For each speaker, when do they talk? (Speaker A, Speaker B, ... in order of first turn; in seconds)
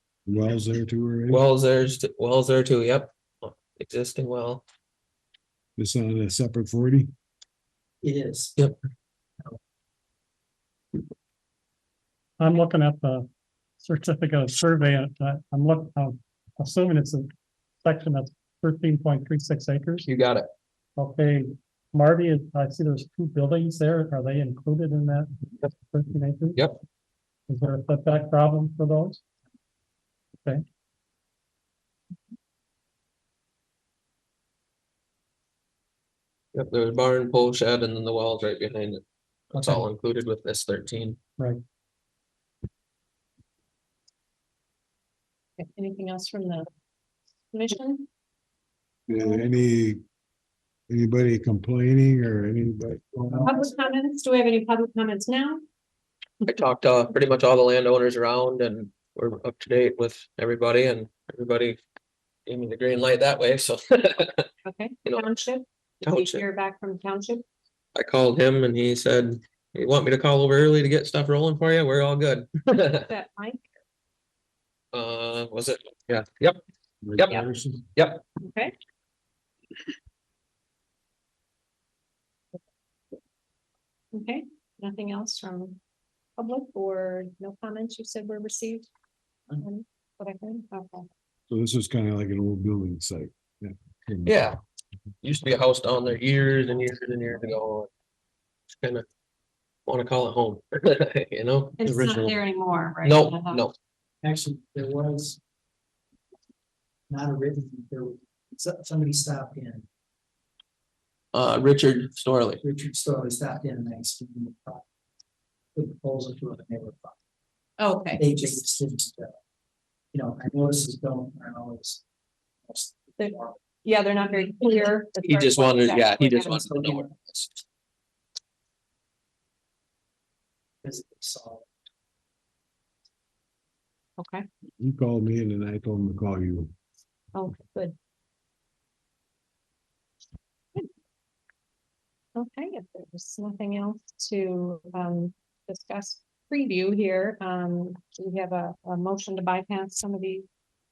Speaker A: 0.3-1.4, 5.8-7.1, 49.1-50.0, 50.9-53.5, 77.0-77.8, 91.5-94.4, 101.8-102.4, 134.8-136.7
Speaker B: 1.3-4.6, 20.1-20.5, 36.5-41.2, 56.5-61.8, 62.5-64.5, 66.0-66.4, 68.0-73.1, 74.9-76.6, 78.0-78.2, 94.3-94.6, 95.2-97.9, 99.9-101.8, 103.0-103.7, 111.3-112.6, 125.2-127.5
Speaker C: 8.0-8.6, 53.2-53.6, 104.2-105.4, 107.1-109.9, 112.6-114.8, 115.8-117.2, 118.2-119.4, 120.1-122.0, 122.7-123.6, 130.8-131.7
Speaker D: 12.4-13.3, 13.8-17.3, 17.8-20.1, 21.0-26.7, 27.5-29.2, 39.5-39.8
Speaker E: 45.6-46.7, 47.5-48.1, 53.5-55.6, 64.7-67.4, 73.1-73.7, 78.4-78.8, 84.1-85.8, 86.4-88.9, 89.6-91.1, 101.8-103.7, 117.8-118.6, 123.2-126.9, 134.2-134.5, 137.3-137.9, 142.3-150.5